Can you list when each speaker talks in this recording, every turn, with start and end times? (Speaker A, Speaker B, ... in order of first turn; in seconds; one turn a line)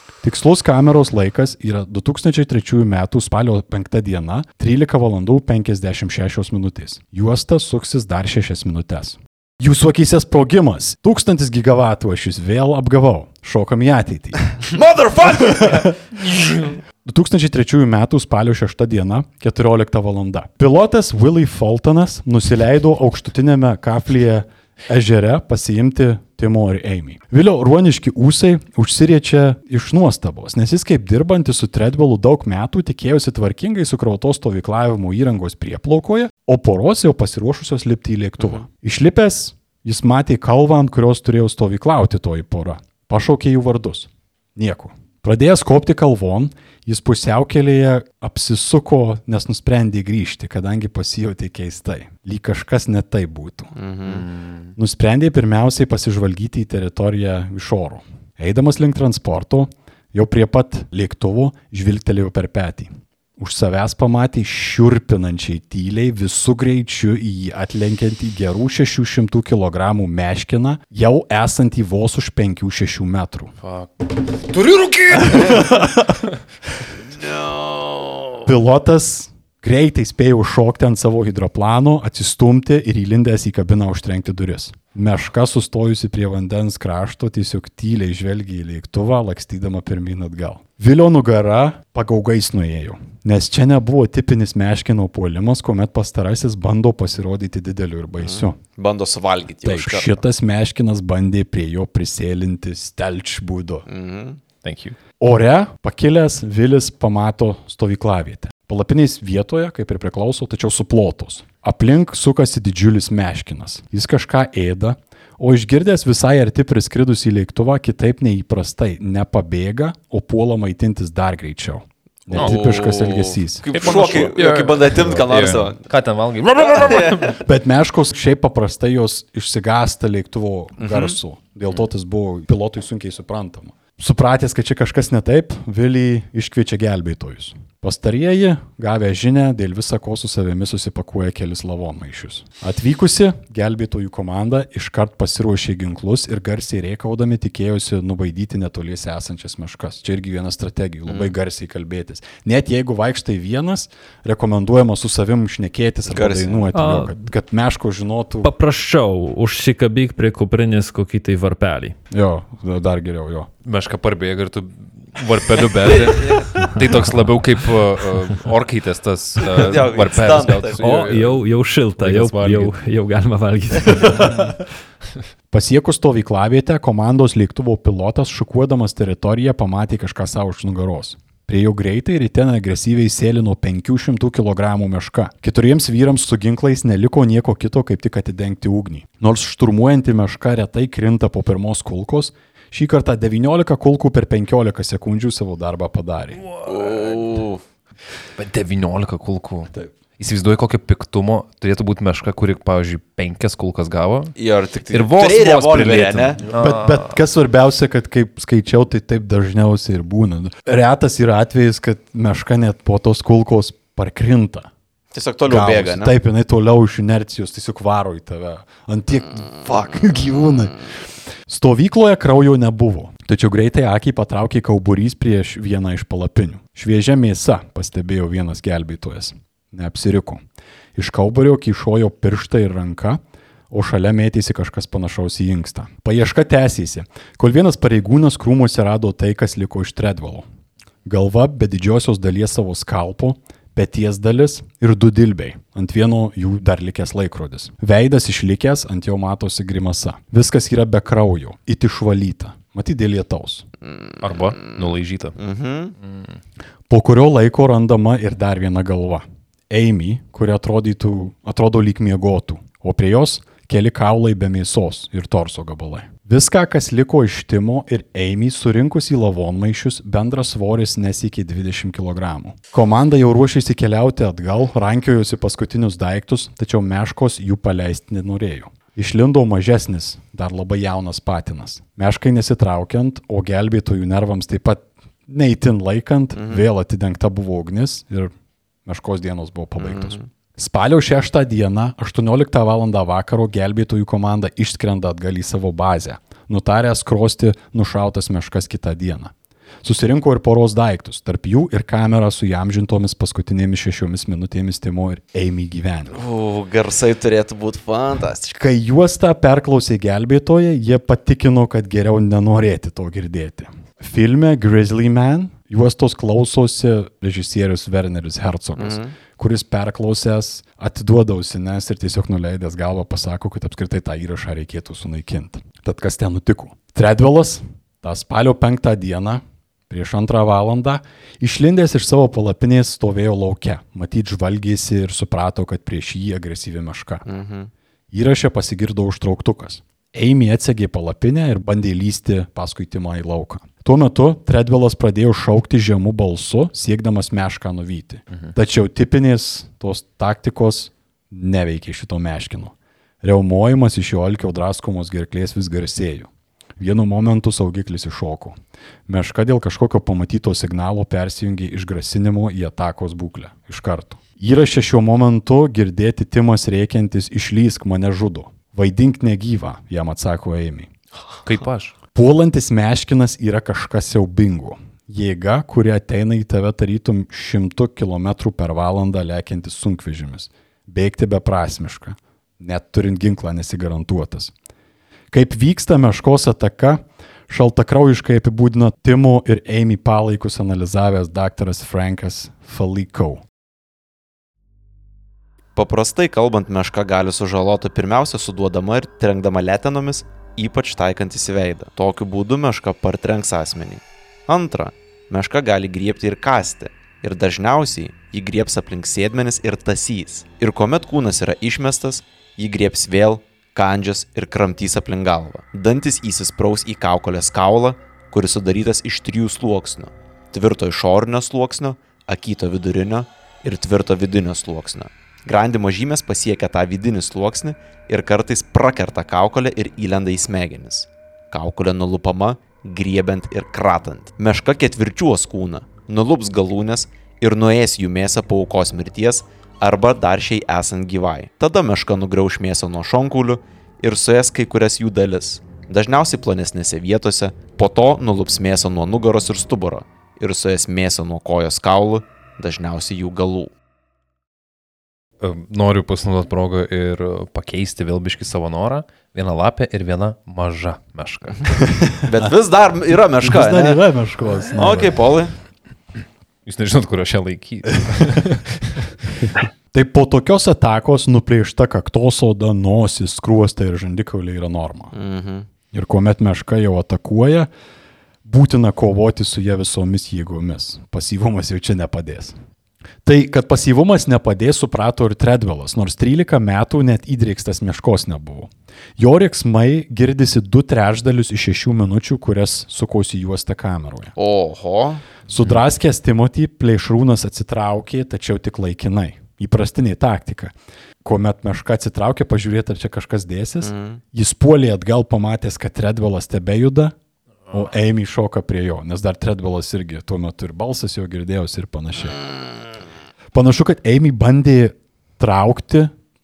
Speaker A: 0.2-14.6
Speaker B: 14.7-15.9
Speaker A: 15.4-16.0
Speaker A: 17.1-53.7
Speaker B: 53.8-54.2
Speaker C: 54.0-54.7
Speaker A: 54.8-73.5
Speaker C: 73.6-76.0
Speaker A: 75.3-76.2
Speaker B: 77.2-78.3
Speaker A: 78.5-98.6
Speaker B: 98.2-100.2
Speaker A: 99.6-103.8
Speaker B: 103.9-104.4
Speaker C: 104.6-105.0
Speaker A: 105.2-123.7
Speaker C: 122.3-122.6
Speaker B: 122.3-125.8
Speaker C: 123.7-127.4
Speaker B: 126.7-127.3
Speaker A: 127.3-158.5
Speaker B: 130.8-131.2
Speaker B: 151.1-151.3
Speaker B: 156.1-156.7
Speaker D: 156.7-157.2
Speaker D: 158.4-162.0
Speaker A: 162.1-163.5
Speaker C: 163.6-171.5
Speaker B: 165.9-166.7
Speaker B: 169.4-170.8
Speaker D: 170.8-174.5
Speaker C: 172.0-172.7
Speaker A: 175.5-196.4
Speaker C: 196.4-197.4
Speaker B: 196.7-197.6
Speaker C: 198.4-204.3
Speaker B: 204.4-206.4
Speaker C: 204.9-207.2
Speaker A: 206.4-214.7
Speaker B: 215.1-216.1
Speaker A: 215.5-220.8
Speaker A: 221.5-230.4
Speaker A: 231.0-233.2
Speaker A: 233.7-240.4
Speaker A: 241.1-253.7
Speaker B: 253.9-254.8
Speaker C: 254.2-255.4
Speaker B: 255.4-255.9
Speaker C: 256.0-256.4
Speaker A: 256.9-288.3
Speaker B: 286.4-286.6
Speaker A: 288.9-306.2
Speaker B: 289.8-290.2
Speaker B: 306.1-308.6
Speaker A: 308.6-337.2
Speaker B: 318.8-319.1
Speaker B: 337.2-337.7
Speaker A: 338.1-358.6
Speaker A: 359.1-370.9
Speaker C: 371.4-371.9
Speaker A: 372.1-384.5
Speaker A: 385.3-393.4
Speaker B: 395.8-453.7
Speaker C: 455.4-461.8
Speaker A: 461.9-462.2
Speaker B: 462.2-464.0
Speaker A: 463.4-465.1
Speaker B: 464.7-465.5
Speaker C: 466.7-469.1
Speaker A: 469.9-475.1
Speaker B: 475.1-475.7
Speaker A: 475.9-477.7
Speaker A: 478.4-482.6
Speaker A: 483.2-494.3
Speaker B: 494.4-495.3
Speaker A: 495.5-507.1
Speaker B: 503.8-504.2
Speaker A: 507.7-512.4
Speaker A: 513.5-516.1